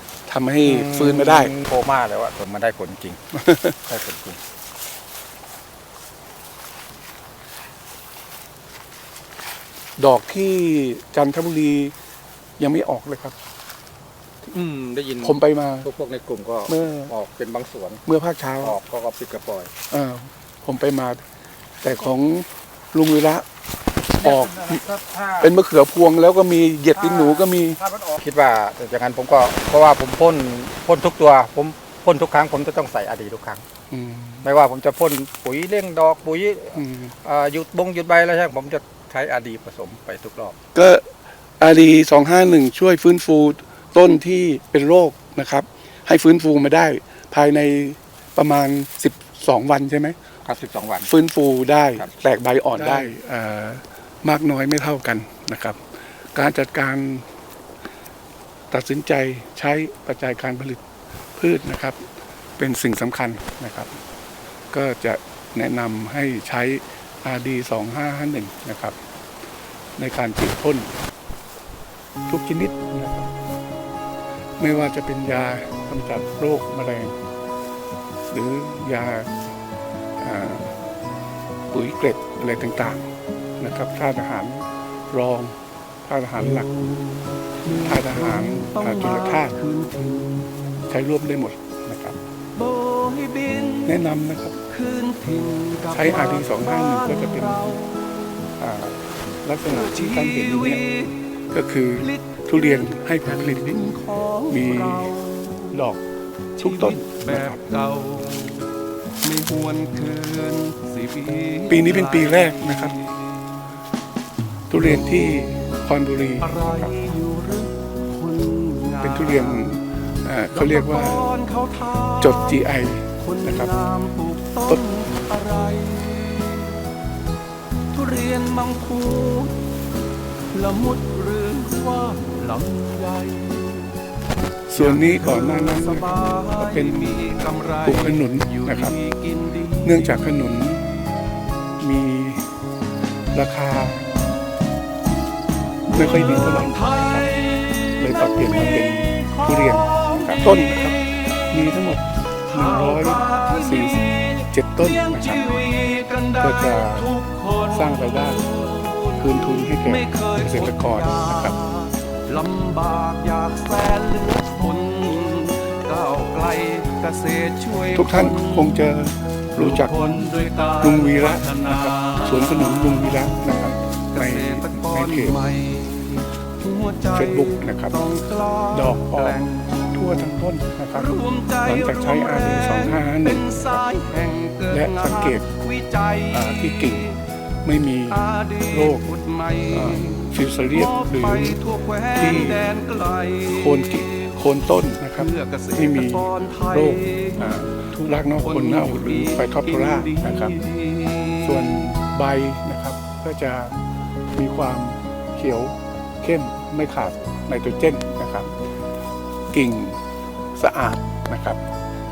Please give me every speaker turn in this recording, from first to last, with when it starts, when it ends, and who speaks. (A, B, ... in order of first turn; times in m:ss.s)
0:00.3-0:01.5 A
0:00.6-0:03.2 B
0:03.4-0:03.8 A
0:03.9-0:04.4 B
0:10.0-0:11.9 A
0:12.6-0:13.3 A
0:14.5-0:18.0 B
0:15.2-0:15.9 A
0:16.7-0:17.1 A
0:18.0-0:18.8 A
0:18.6-0:19.7 B
0:19.9-0:21.2 A
0:21.8-0:23.4 A
0:24.1-0:24.8 A
0:24.1-0:25.5 B
0:25.4-0:27.8 A
0:26.9-0:33.6 B
0:33.9-0:34.4 A
0:34.4-0:40.6 B
0:36.8-0:37.1 A
0:40.7-0:41.0 A
0:41.6-0:50.1 A
0:50.4-0:51.1 B
0:51.0-0:55.8 A
0:52.8-0:53.1 B
0:56.3-0:57.2 A
0:58.7-1:00.8 A
1:01.4-1:02.0 A
1:02.6-1:04.0 A
1:04.7-1:09.0 A
1:10.0-1:10.9 A
1:12.3-1:13.3 A
1:14.6-1:17.2 A
1:18.3-1:19.3 A
1:20.2-1:20.8 A
1:21.7-1:23.1 A
1:23.6-1:26.8 A
1:27.5-1:30.6 C
1:27.8-1:29.6 A
1:30.8-1:32.2 A
1:32.6-1:33.9 C
1:33.8-1:34.6 A
1:34.7-1:38.4 C
1:35.9-1:37.8 A
1:38.6-1:45.2 A
1:39.7-1:41.2 C
1:42.8-1:45.7 C
1:45.7-1:46.0 A
1:46.6-1:47.6 A
1:46.6-1:48.7 C
1:49.2-1:53.4 C
1:51.7-1:53.1 A
1:54.7-1:56.9 A
1:56.4-1:59.7 C
1:59.0-2:01.4 A
2:00.5-2:02.5 C
2:02.2-2:03.7 A
2:03.2-2:06.8 C
2:07.9-2:09.6 C
2:10.5-2:13.9 C
2:14.7-2:19.0 A
2:14.8-2:20.0 C
2:19.8-2:22.5 A
2:23.3-2:24.0 A
2:25.9-2:27.4 A
2:26.2-2:27.7 C
2:28.0-2:31.0 A
2:29.2-2:31.1 C
2:31.5-2:35.5 A
2:32.5-2:39.2 C
2:36.4-2:38.5 A
2:39.2-2:41.6 A
2:39.8-2:48.8 C
2:47.8-2:50.0 A
2:49.6-2:52.9 C
2:50.8-2:55.4 A
2:54.1-2:59.8 C
2:57.1-2:58.0 A
2:58.7-3:03.6 A
3:01.0-3:06.8 C
3:04.7-3:05.5 A
3:06.3-3:07.1 A
3:07.6-3:09.0 A
3:08.1-3:13.8 C
3:09.7-3:11.6 A
3:12.1-3:12.7 A
3:13.4-3:20.7 A
3:15.2-3:17.4 C
3:18.4-3:21.4 C
3:21.3-3:23.8 A
3:24.4-3:28.5 A
3:29.5-3:30.0 A
3:30.6-3:31.6 A